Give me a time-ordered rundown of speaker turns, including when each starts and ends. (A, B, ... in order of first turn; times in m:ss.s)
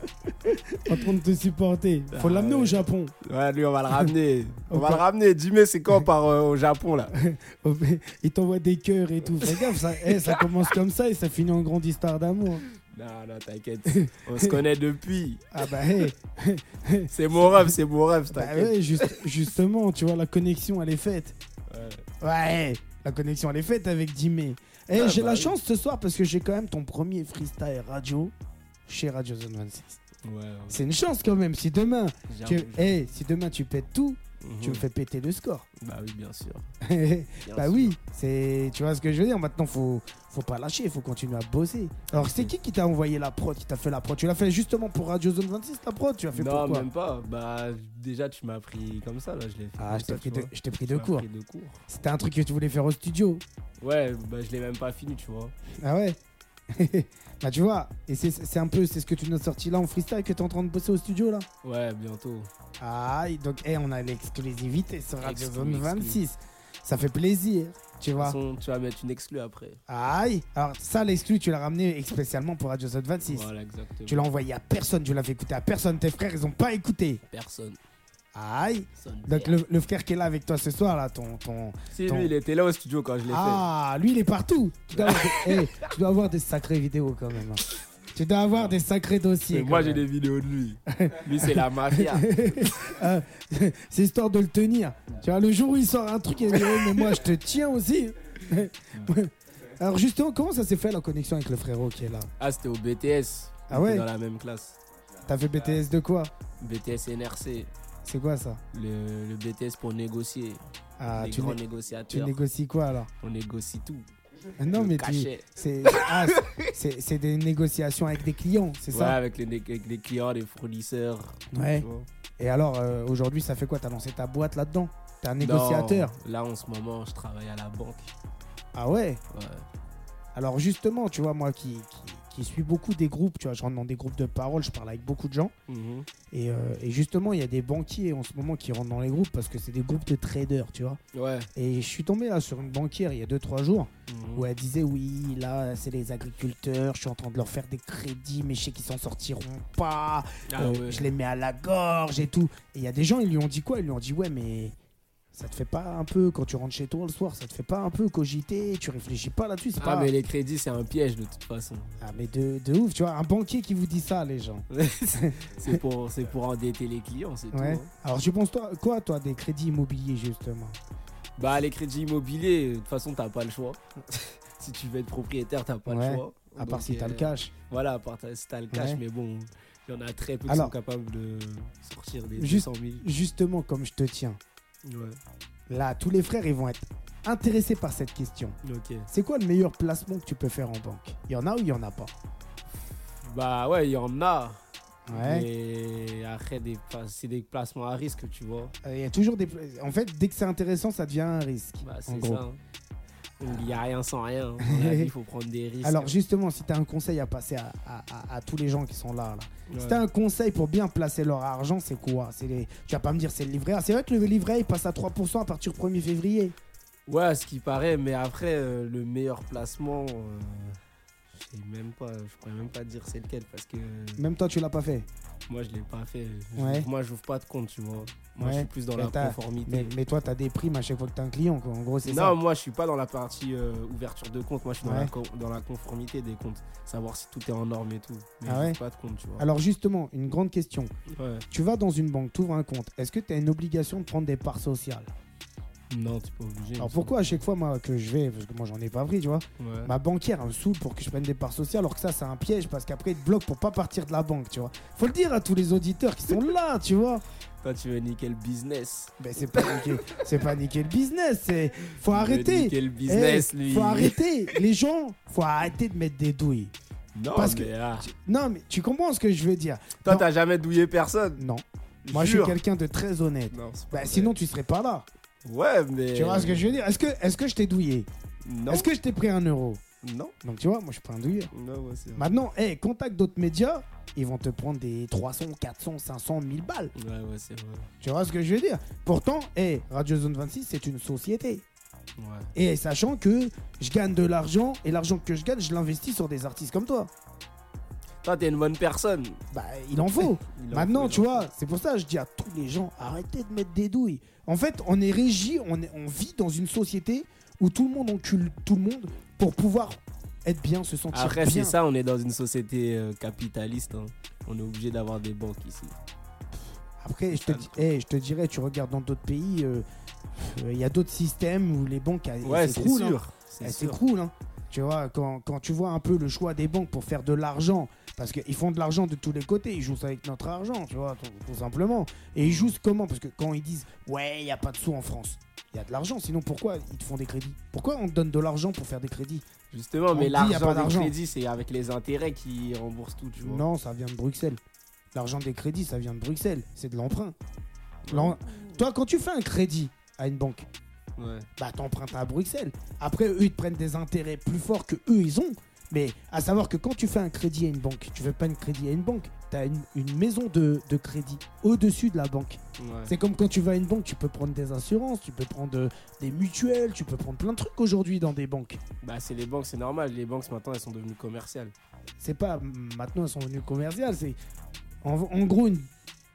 0:00.4-0:03.1 A
0:02.1-0:07.1 B
0:04.7-0:05.0 A
0:07.2-0:12.6 A
0:09.4-0:10.4 B
0:12.9-0:15.5 B
0:13.9-0:14.6 A
0:15.5-0:17.8 A
0:17.1-0:19.2 B
0:18.3-0:21.3 A
0:21.7-0:22.0 B
0:22.2-0:28.3 A
0:24.9-0:25.5 B
0:28.8-0:30.0 A
0:30.2-0:30.8 B
0:30.7-0:35.6 A
0:32.3-0:33.0 B
0:34.4-0:34.8 B
0:35.8-0:36.7 B
0:36.8-0:46.9 A
0:37.4-0:37.9 B
0:42.1-0:42.5 B
0:46.3-0:51.8 B
0:49.8-0:51.2 A
0:51.9-0:53.4 A
0:53.8-0:55.5 B
0:55.8-0:56.2 A
0:56.7-1:01.5 A
1:01.6-1:02.5 B
1:02.8-1:08.4 A
1:05.2-1:06.2 B
1:08.2-1:09.8 B
1:09.9-1:13.5 A
1:13.2-1:14.3 B
1:14.1-1:17.2 A
1:17.3-1:17.8 B
1:18.3-1:22.3 A
1:19.0-1:19.6 B
1:21.9-1:23.6 B
1:23.2-1:30.0 A
1:24.9-1:25.9 B
1:29.5-1:32.4 B
1:30.9-1:42.3 A
1:42.4-1:44.8 B
1:43.7-1:44.1 A
1:45.2-1:46.3 A
1:46.6-1:47.7 B
1:48.0-1:48.6 A
1:48.7-1:50.6 B
1:51.0-1:53.1 A
1:51.1-1:52.4 B
1:53.2-1:54.1 B
1:54.6-1:59.2 A
1:54.7-1:56.7 B
1:58.9-2:02.1 B
2:01.5-2:01.8 A
2:02.4-2:06.1 A
2:05.4-2:08.1 B
2:08.7-2:09.2 A
2:09.3-2:09.6 B
2:10.3-2:15.5 A
2:15.7-2:16.1 B
2:16.3-2:21.0 A
2:21.1-2:21.5 B
2:21.6-2:34.7 A
2:24.1-2:24.5 B
2:30.5-2:31.1 B
2:35.3-2:40.1 A
2:39.8-2:42.0 B
2:42.0-2:45.8 A
2:44.7-2:47.9 B
2:47.5-2:50.8 A
2:51.4-3:03.0 B
2:55.8-2:57.5 A
2:58.7-2:59.0 A
3:00.5-3:00.7 A
3:02.4-3:04.4 A
3:04.8-3:05.2 B
3:05.7-3:08.6 A
3:08.6-3:09.1 B
3:09.1-3:12.1 A
3:13.2-3:18.7 B
3:15.1-3:15.5 A
3:18.8-3:22.4 A
3:21.8-3:22.6 B
3:23.4-3:26.1 B
3:24.6-3:25.1 A
3:25.8-3:36.5 A
3:29.7-3:30.0 B
3:37.1-3:40.8 B
3:41.3-3:44.2 B
3:44.2-3:45.1 A
3:45.5-3:49.9 B
3:46.6-3:46.9 A
3:48.4-3:52.4 A
3:52.0-3:59.4 B
3:54.8-3:55.1 A
3:58.4-3:58.8 A
3:59.4-4:00.9 A
4:01.1-4:01.4 B
4:01.5-4:05.1 A
4:05.9-4:07.2 B
4:06.8-4:17.2 A
4:09.6-4:09.9 B
4:17.6-4:20.0 B
4:19.2-4:26.7 A
4:22.0-4:24.2 B
4:27.1-4:28.1 B
4:27.3-4:30.2 A
4:30.0-4:31.4 B
4:31.4-4:35.0 A
4:32.0-4:32.6 B
4:33.5-4:34.3 B
4:35.4-4:36.8 B
4:36.1-4:38.1 A
4:38.4-4:38.9 B
4:38.7-4:39.8 A
4:40.0-4:40.3 B
4:40.4-4:41.5 A
4:41.5-4:42.3 B
4:42.1-4:46.9 A
4:46.9-4:47.9 B
4:48.0-4:51.6 A
4:52.2-4:52.5 B
4:52.5-4:57.1 A
4:58.2-4:59.4 B
4:59.5-5:11.8 A
5:00.0-5:01.4 B
5:11.1-5:16.0 B
5:17.0-5:39.4 A
5:17.3-5:17.8 B
5:22.4-5:24.0 B
5:32.4-5:32.7 B
5:39.7-5:43.6 B
5:40.1-5:41.1 A
5:43.4-5:44.6 A
5:45.1-5:47.4 A
5:48.0-5:48.7 B
5:48.1-5:50.7 A
5:51.2-5:51.5 B
5:51.6-6:08.8 A
6:02.8-6:03.1 B
6:09.0-6:11.7 B
6:12.2-6:14.4 A
6:15.0-6:15.9 A